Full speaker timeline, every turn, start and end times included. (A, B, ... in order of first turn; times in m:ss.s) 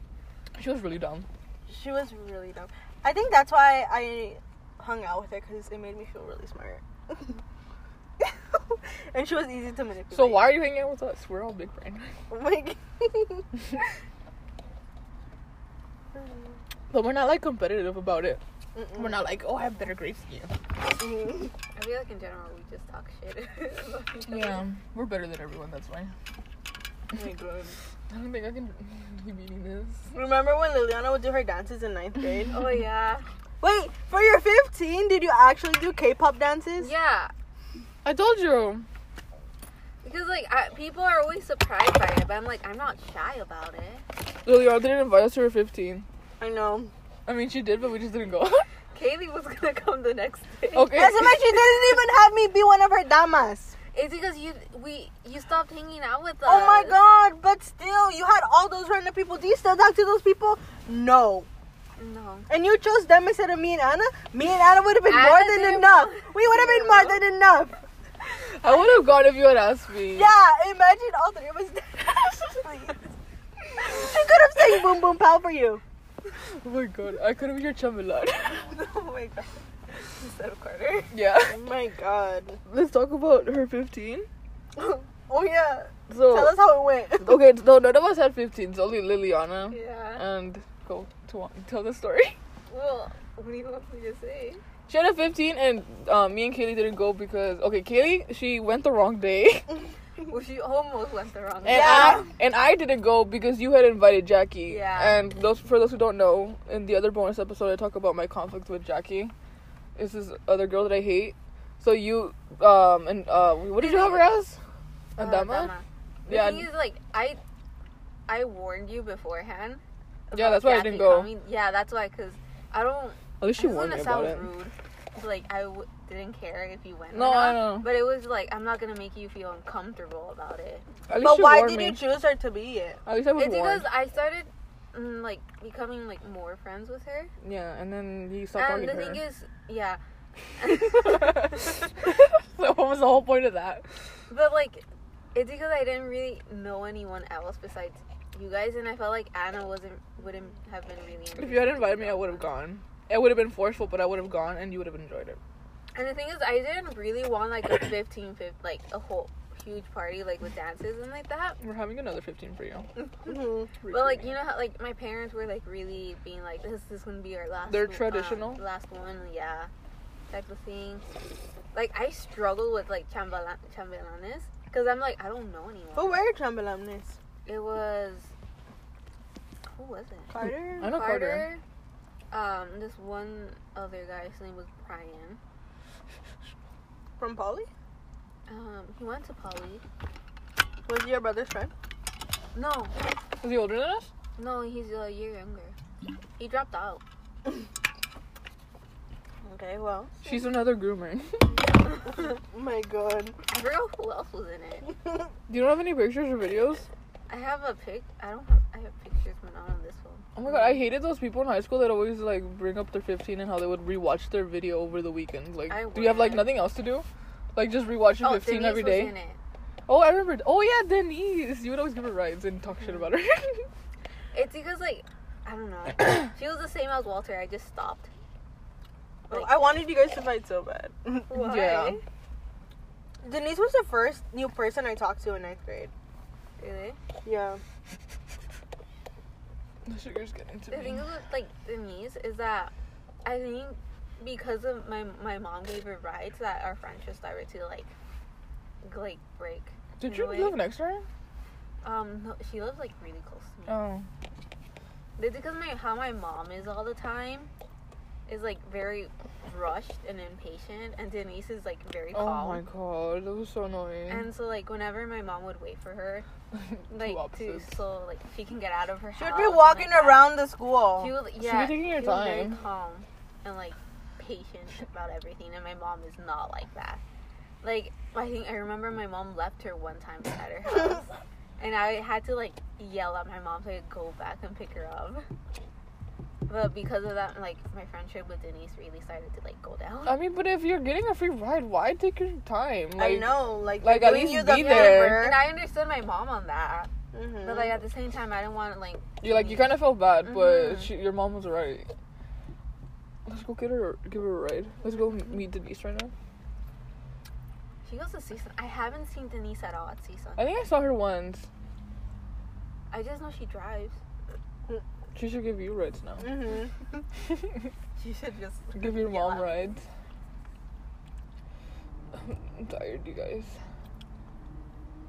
0:00.6-0:01.3 A
0:01.7-0:07.4 B
0:08.2-0:10.6 B
0:10.1-0:12.1 A
0:12.3-0:13.5 B
0:16.9-0:18.4 A
0:18.8-0:19.1 B
0:18.9-0:20.5 A
0:21.0-0:21.5 B
0:21.8-0:24.6 C
0:24.3-0:26.1 A
0:27.1-0:27.8 B
0:28.1-0:30.1 A
0:30.1-0:32.6 B
0:32.5-0:33.3 C
0:33.6-0:36.9 B
0:36.8-0:37.3 C
0:38.0-0:38.9 A
0:40.0-0:44.0 C
0:44.4-0:46.1 A
0:46.4-0:46.9 B
0:47.3-0:48.7 A
0:48.9-0:51.2 C
0:50.7-0:51.6 A
0:50.9-0:53.8 B
0:53.9-0:57.0 C
0:56.4-1:01.5 B
1:02.0-1:02.5 C
1:02.5-1:07.8 B
1:05.0-1:07.2 C
1:08.6-1:10.3 A
1:10.1-1:13.0 B
1:13.8-1:15.8 B
1:16.6-1:18.7 A
1:18.7-1:21.1 C
1:21.1-1:21.6 A
1:21.4-1:22.6 B
1:22.7-1:24.3 A
1:24.8-1:27.4 B
1:26.1-1:26.6 A
1:27.2-1:32.4 A
1:29.7-1:30.2 C
1:32.7-1:34.6 C
1:34.9-1:39.7 A
1:40.3-1:42.3 C
1:41.6-1:49.3 A
1:41.7-1:42.3 B
1:44.7-1:45.2 C
1:50.0-1:54.6 A
1:53.8-1:54.3 C
1:55.2-1:55.7 A
1:55.2-1:57.4 C
1:56.3-1:56.7 A
1:58.3-2:10.9 C
2:00.3-2:01.3 A
2:03.4-2:04.5 A
2:07.1-2:07.9 A
2:11.1-2:12.1 A
2:11.2-2:13.0 B
2:13.1-2:13.9 A
2:13.4-2:17.3 C
2:17.4-2:19.2 A
2:18.6-2:20.0 C
2:20.6-2:21.8 C
2:20.7-2:23.9 A
2:24.3-2:32.5 C
2:31.4-2:35.4 A
2:35.9-2:41.6 C
2:41.6-2:42.9 A
2:43.3-2:43.7 B
2:43.8-2:44.4 A
2:43.9-2:49.7 C
2:47.7-2:48.6 A
2:50.3-2:51.1 C
2:51.7-2:56.3 C
2:56.0-2:57.2 B
2:57.5-2:58.3 C
2:59.7-3:01.6 C
3:00.3-3:00.9 B
3:00.4-3:01.5 A
3:02.3-3:05.4 C
3:07.2-3:07.7 B
3:08.5-3:09.8 C
3:10.9-3:11.7 B
3:12.5-3:13.0 C
3:13.4-3:14.1 A
3:14.4-3:15.8 C
3:16.4-3:17.0 C
3:19.4-3:20.1 B
3:20.2-3:21.6 A
3:22.0-3:23.4 B
3:23.5-3:24.9 C
3:25.5-3:26.9 A
3:27.3-3:30.8 C
3:30.4-3:39.1 A
3:35.7-3:36.6 C
3:38.2-3:39.4 C
3:39.9-3:43.7 A
3:44.3-3:48.1 C
3:49.3-3:49.8 C
3:49.3-3:51.3 B
3:51.3-3:52.0 C
3:51.3-3:52.0 A
3:53.2-3:55.9 B
3:56.6-3:57.0 C
3:57.2-3:57.6 B
3:59.9-4:01.0 A
4:00.7-4:02.7 C
4:03.2-4:07.9 C
4:08.8-4:10.6 C
4:10.0-4:11.0 A
4:11.8-4:13.8 C
4:13.7-4:14.1 A
4:15.2-4:17.5 C
4:18.3-4:22.6 C
4:22.1-4:24.3 A
4:24.1-4:26.3 C
4:26.5-4:27.8 A
4:26.9-4:30.4 C
4:29.2-4:31.1 B
4:31.0-4:37.0 C
4:31.4-4:32.6 A
4:37.6-4:45.2 C
4:46.5-4:50.2 C
4:50.1-4:55.4 A
4:53.0-4:55.5 B
4:54.5-4:56.9 C
4:57.1-4:57.8 B
4:57.4-5:00.9 C
4:59.2-5:01.9 A
5:03.3-5:06.1 A
5:07.8-5:10.6 C
5:10.4-5:11.5 A
5:12.9-5:14.0 C
5:15.2-5:16.5 A
5:16.2-5:16.7 B
5:18.0-5:19.8 C
5:18.8-5:19.8 A
5:22.1-5:23.6 A